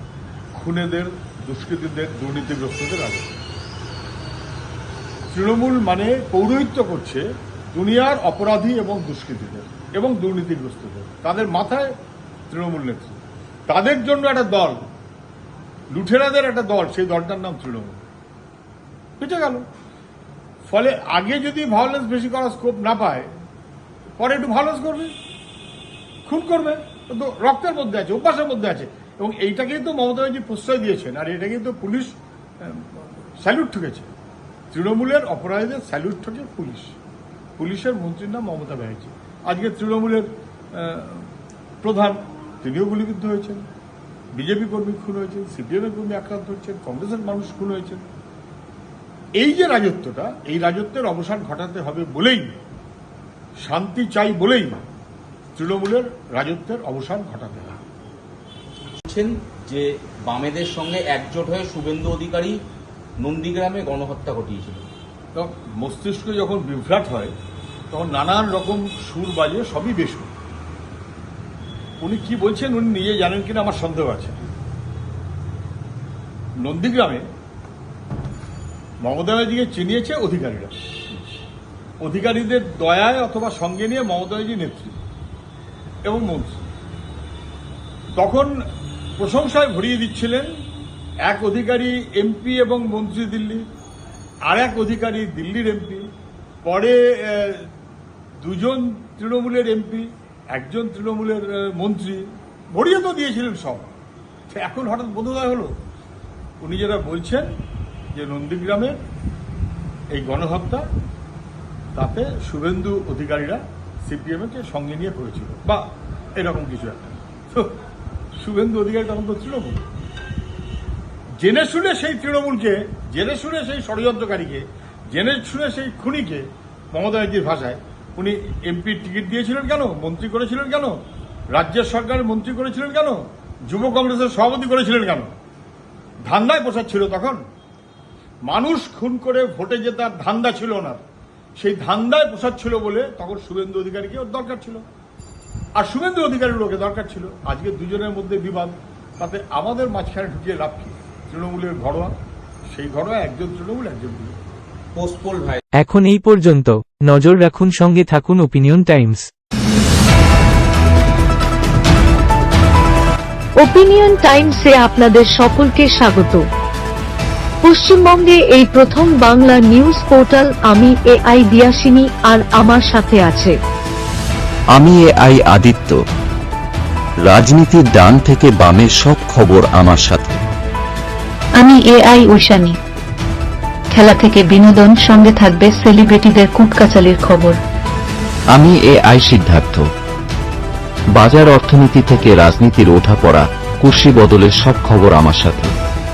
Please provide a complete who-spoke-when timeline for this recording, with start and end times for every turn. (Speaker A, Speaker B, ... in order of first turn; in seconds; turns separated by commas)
Speaker A: 0.6-3.3, Speaker A: 5.3-11.9, Speaker A: 12.5-14.8, Speaker A: 15.9-18.0, Speaker A: 19.2-19.6, Speaker A: 20.7-23.3, Speaker A: 24.2-25.1, Speaker A: 26.2-34.1, Speaker A: 34.7-37.0, Speaker A: 37.6-41.3, Speaker A: 41.8-43.6, Speaker A: 44.3-48.0, Speaker A: 49.4-52.5, Speaker A: 53.6-54.8, Speaker A: 55.5-57.8, Speaker B: 59.0-62.6, Speaker B: 63.2-64.8, Speaker A: 65.3-67.3, Speaker A: 67.9-70.3, Speaker A: 72.0-74.5, Speaker A: 76.6-77.2, Speaker A: 79.0-80.8, Speaker A: 82.0-85.0, Speaker A: 86.0-86.7, Speaker A: 88.2-88.5, Speaker A: 89.2-90.5, Speaker A: 91.2-93.6, Speaker A: 94.5-96.0, Speaker A: 96.6-97.7, Speaker A: 98.4-103.9, Speaker A: 104.5-105.7, Speaker A: 106.6-107.5, Speaker A: 108.1-109.0, Speaker A: 110.1-110.8, Speaker A: 111.9-115.8, Speaker A: 116.4-117.7, Speaker A: 118.4-119.8, Speaker A: 121.4-131.0, Speaker A: 131.5-135.3, Speaker A: 136.2-137.4, Speaker A: 138.4-141.0, Speaker A: 141.6-144.8, Speaker A: 145.8-152.1, Speaker A: 152.7-154.3, Speaker B: 154.9-155.6, Speaker C: 155.8-159.2, Speaker D: 163.6-166.4, Speaker D: 167.6-173.5, Speaker E: 174.7-176.0, Speaker E: 177.2-180.4, Speaker F: 181.6-182.8, Speaker F: 183.9-187.6, Speaker E: 188.5-189.8, Speaker E: 191.1-195.7